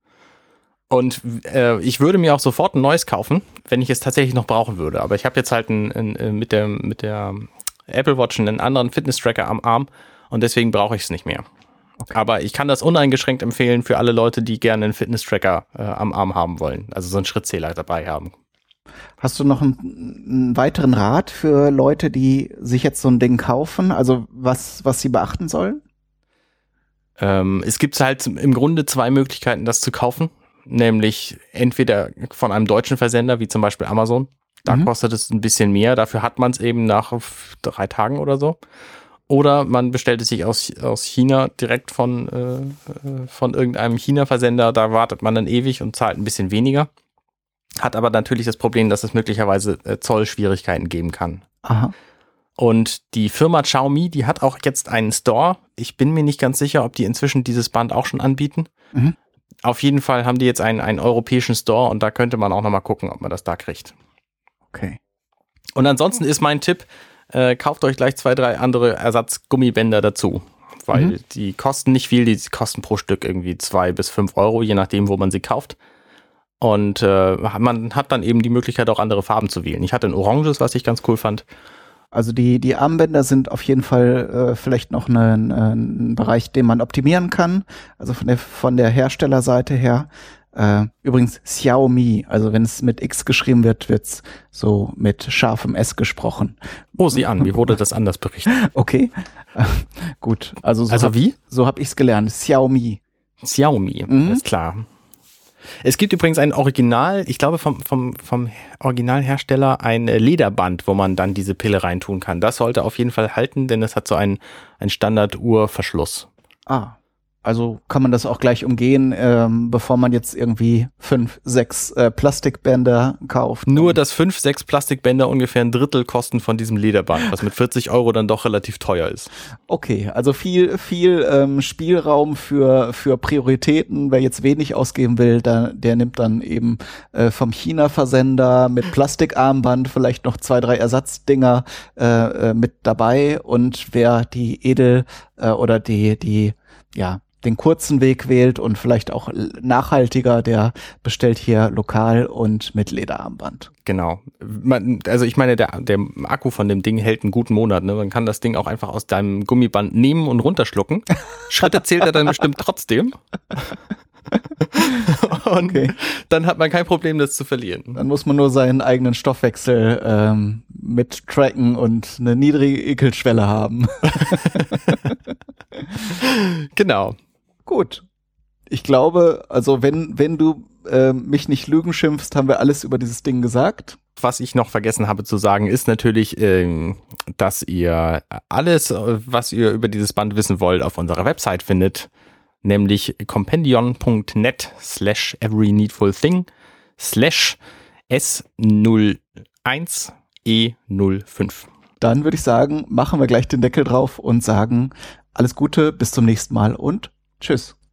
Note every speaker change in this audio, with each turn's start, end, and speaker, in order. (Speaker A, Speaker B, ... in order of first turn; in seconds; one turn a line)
Speaker A: 0.9-11.4
Speaker A: 12.1-18.3
Speaker B: 19.2-25.8
Speaker A: 27.2-38.6
Speaker A: 39.3-46.9
Speaker A: 47.8-51.4
Speaker B: 51.6-51.9
Speaker A: 52.6-58.7
Speaker A: 59.6-63.9
Speaker B: 64.7-65.0
Speaker A: 65.8-75.8
Speaker A: 76.6-81.4
Speaker B: 82.1-96.6
Speaker A: 97.0-98.5
Speaker B: 98.5-103.0
Speaker A: 100.9-101.3
Speaker A: 103.4-104.9
Speaker B: 104.1-104.4
Speaker A: 105.8-116.3
Speaker B: 116.7-124.0
Speaker A: 123.7-129.3
Speaker B: 129.7-153.7
Speaker A: 153.8-163.7
Speaker A: 164.6-168.0
Speaker B: 165.7-165.9
Speaker B: 167.9-175.1
Speaker A: 174.2-175.0
Speaker A: 176.1-177.2
Speaker B: 177.7-178.0
Speaker B: 178.7-184.0
Speaker A: 184.2-192.1
Speaker A: 192.6-197.6
Speaker A: 198.1-201.7
Speaker B: 202.0-207.7